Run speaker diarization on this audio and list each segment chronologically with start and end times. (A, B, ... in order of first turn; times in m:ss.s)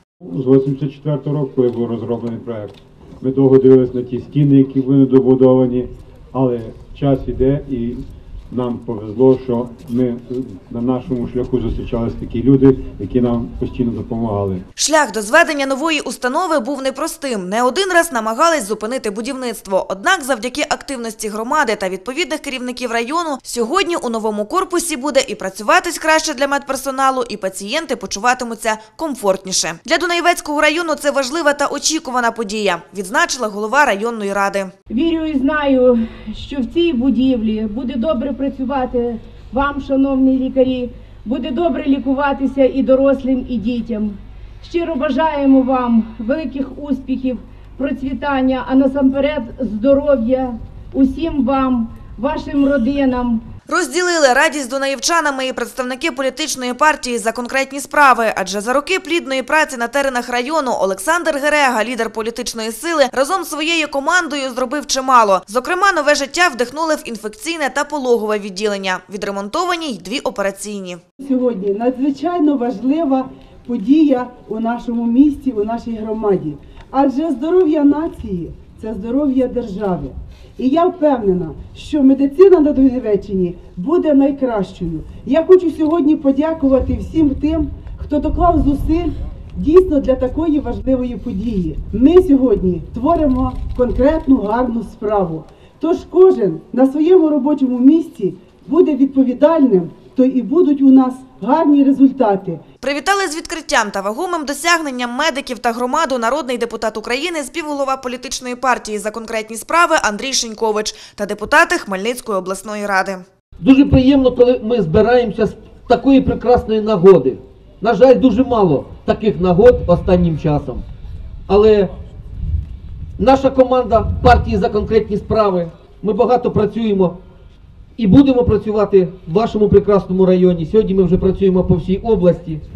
0:00.2-0:14.6 A
0:14.8-0:34.7 B
0:34.9-0:53.4 C
0:53.7-1:11.0 B
1:11.2-1:42.6 D
1:42.8-1:53.2 B
1:53.6-2:00.8 E
2:01.5-2:01.9 E
2:03.2-2:07.2 E
2:08.0-2:12.6 E